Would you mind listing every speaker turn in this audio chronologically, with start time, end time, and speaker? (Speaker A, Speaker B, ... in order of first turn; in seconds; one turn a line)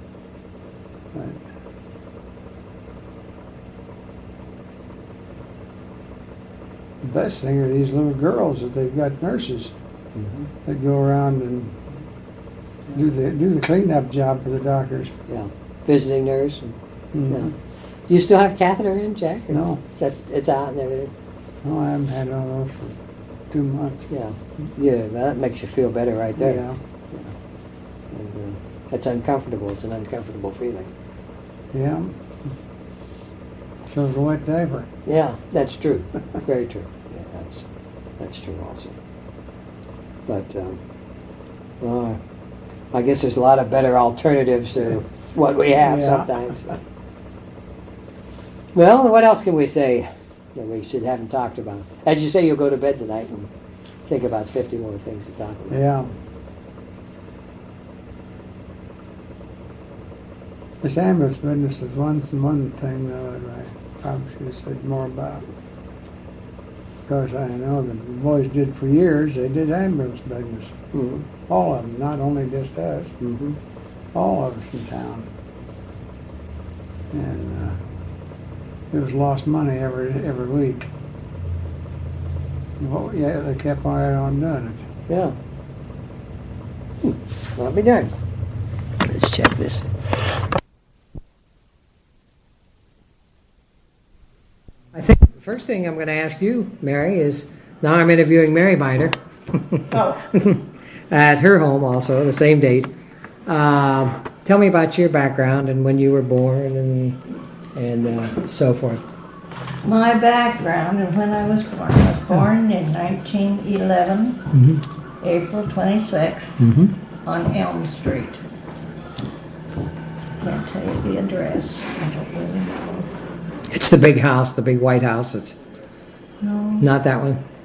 Speaker A: 1.1-1.5
Speaker A: 7.0-9.7
Speaker B: 10.2-10.5
Speaker A: 10.6-11.9
Speaker A: 12.9-15.1
Speaker B: 15.3-16.8
Speaker A: 17.1-17.5
Speaker B: 18.1-21.1
Speaker A: 19.5-19.8
Speaker A: 21.6-23.0
Speaker A: 23.5-24.1
Speaker B: 24.1-27.3
Speaker A: 26.4-26.8
Speaker B: 28.1-30.9
Speaker A: 31.7-32.3
Speaker A: 33.9-34.9
Speaker B: 35.0-37.6
Speaker B: 38.2-39.0
Speaker B: 40.3-40.8
Speaker B: 41.8-42.2
Speaker B: 42.9-46.8
Speaker A: 45.7-46.5
Speaker B: 48.7-53.5
Speaker B: 54.1-55.8
Speaker A: 55.7-56.1
Speaker A: 60.8-65.5
Speaker A: 67.1-70.8
Speaker B: 70.9-71.2
Speaker A: 71.5-73.2
Speaker B: 73.2-73.6
Speaker A: 74.1-75.3
Speaker A: 77.1-77.8
Speaker A: 78.9-80.9
Speaker A: 82.8-84.9
Speaker B: 85.1-85.3
Speaker B: 87.0-88.1
Speaker B: 89.0-89.8
Speaker B: 94.9-102.9
Speaker C: 99.9-100.2
Speaker B: 103.5-107.2
Speaker B: 107.8-109.0
Speaker C: 109.8-114.5
Speaker B: 114.5-114.8
Speaker C: 115.2-116.7
Speaker B: 116.6-116.9
Speaker C: 117.2-118.4
Speaker C: 120.4-123.1
Speaker B: 123.7-125.6
Speaker C: 126.4-126.9
Speaker B: 126.8-127.4